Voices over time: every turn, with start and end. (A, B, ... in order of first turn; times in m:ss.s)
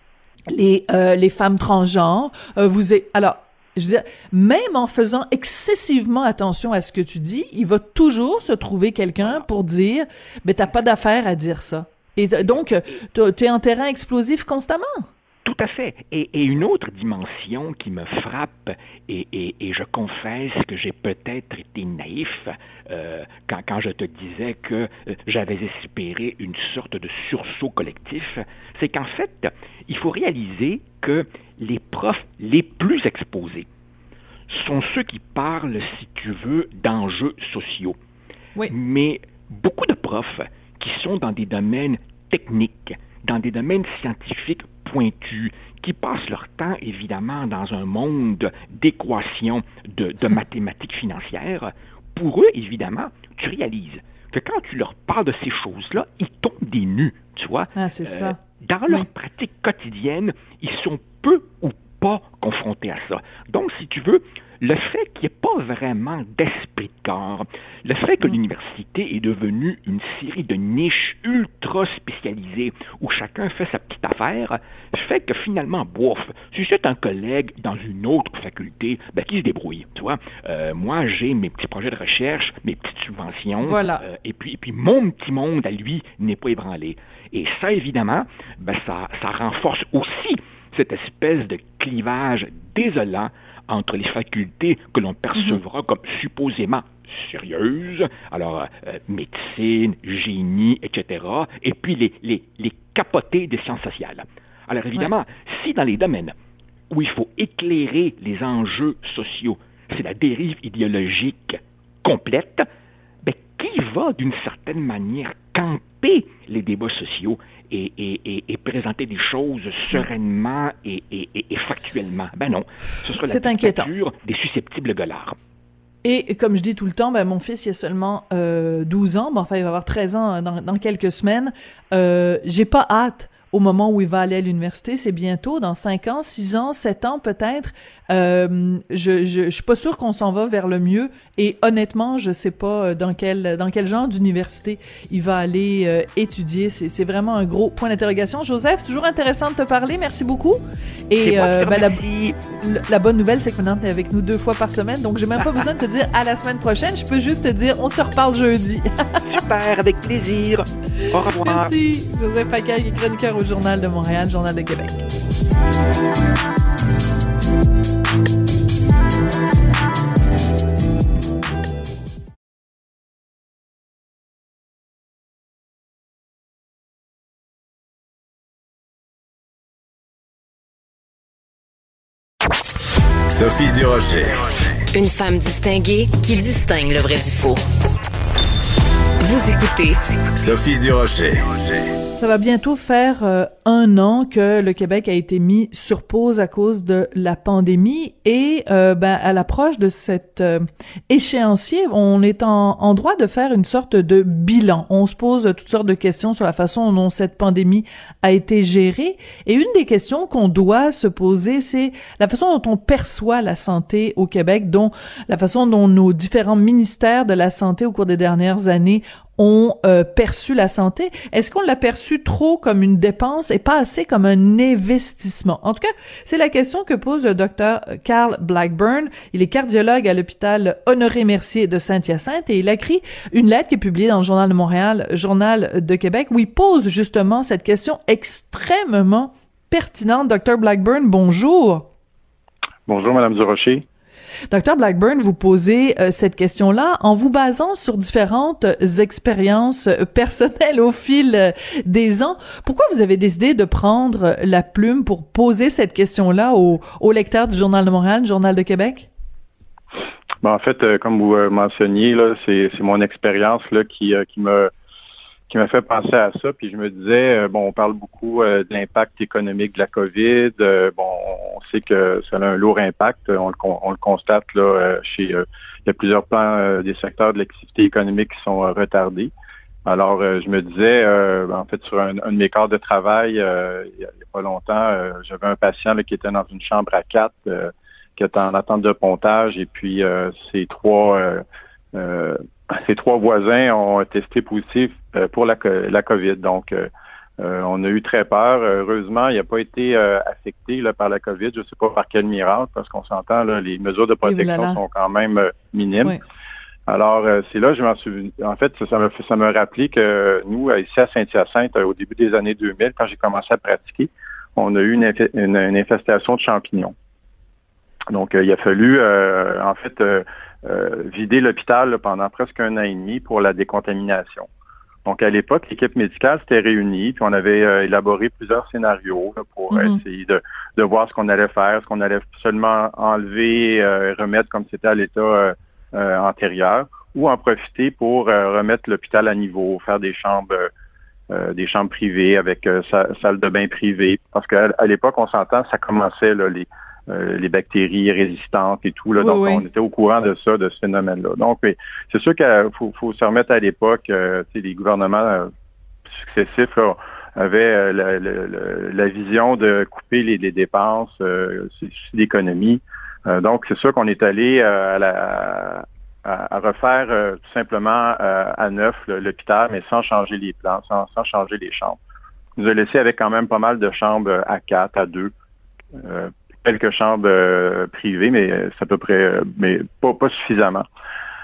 0:00.5-0:15.1 A
0:12.4-0:13.0 B
0:15.4-0:33.7 B
0:34.5-0:38.0 B
0:38.7-1:46.3 B
0:57.8-0:58.4 A
1:23.6-1:24.0 A
1:46.9-1:52.7 B
1:53.2-2:05.4 B
2:03.2-2:03.9 A
2:06.0-2:32.0 A
2:31.2-2:32.4 B
2:32.6-2:39.3 A
2:39.3-2:41.7 B
2:41.0-2:45.0 A
3:03.3-3:04.5 C
3:04.9-3:07.6 D
3:09.2-3:10.0 D
3:10.4-3:11.6 C
3:12.2-4:01.9 A
4:02.9-4:03.8 E
4:04.5-4:19.1 A
4:20.4-4:24.7 E
4:25.5-4:39.3 E
4:39.8-4:51.4 E
4:52.0-5:06.1 E
5:04.2-5:04.8 A
5:06.9-5:16.9 E
5:18.1-5:24.5 E
5:25.0-5:40.7 E
5:29.7-5:30.0 A
5:41.3-5:55.5 E
5:49.2-5:49.6 A
5:56.1-6:12.0 E
6:12.6-6:15.3 E
6:16.0-6:20.8 E